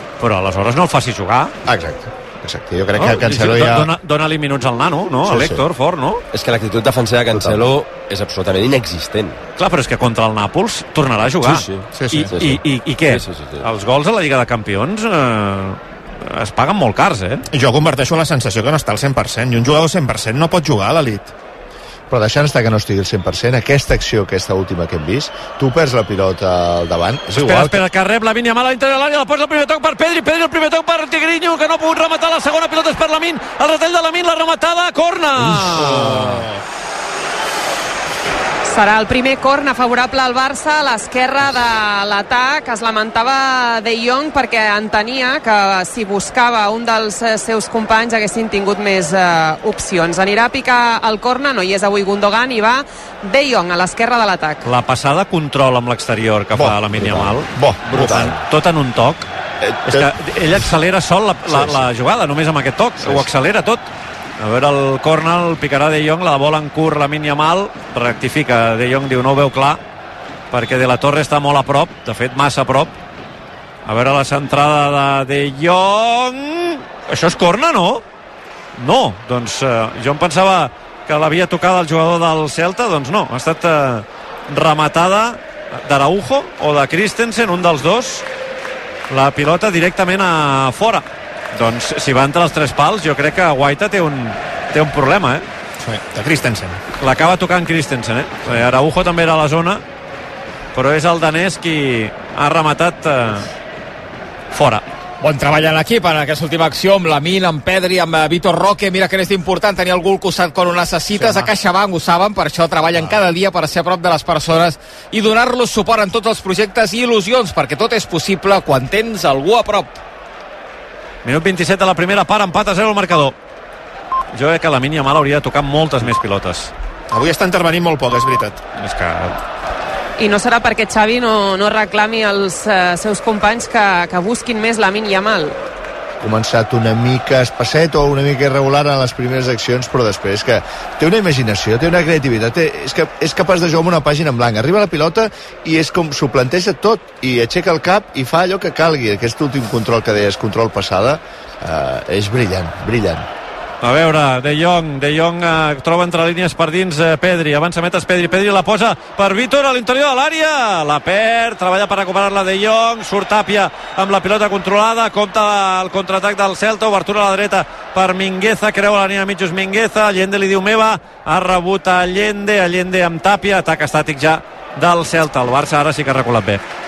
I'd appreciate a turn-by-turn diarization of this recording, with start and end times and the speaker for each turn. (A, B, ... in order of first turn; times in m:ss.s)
0:00.2-0:01.5 A
0:01.7-0:03.9 B
0:03.0-0:06.2 A
0:05.2-0:05.6 B
0:06.3-0:09.4 C
0:07.3-0:07.6 B
0:09.6-0:17.4 A
0:11.4-0:13.7 C
0:11.9-0:12.3 D
0:17.5-0:21.3 D
0:22.1-0:27.8 B
0:27.3-0:36.4 A
0:35.6-0:36.5 D
0:38.7-0:54.6 E
0:54.6-0:59.3 A
0:56.6-0:58.4 B
0:59.6-1:00.1 B
0:59.9-1:03.8 A
1:01.5-1:01.8 B
1:04.4-1:09.8 A
1:10.5-1:12.9 A
1:13.9-1:18.0 A
1:18.8-1:28.2 A
1:29.1-1:35.4 A
1:35.8-1:36.8 D
1:37.0-1:39.8 A
1:40.8-1:43.5 A
1:44.5-1:44.8 A
1:45.2-2:00.0 F
2:01.2-2:03.4 A
2:04.3-2:06.7 A
2:07.1-2:08.6 D
2:08.8-2:09.4 A
2:10.2-2:15.6 E
2:16.2-2:33.3 B
2:33.8-2:56.6 A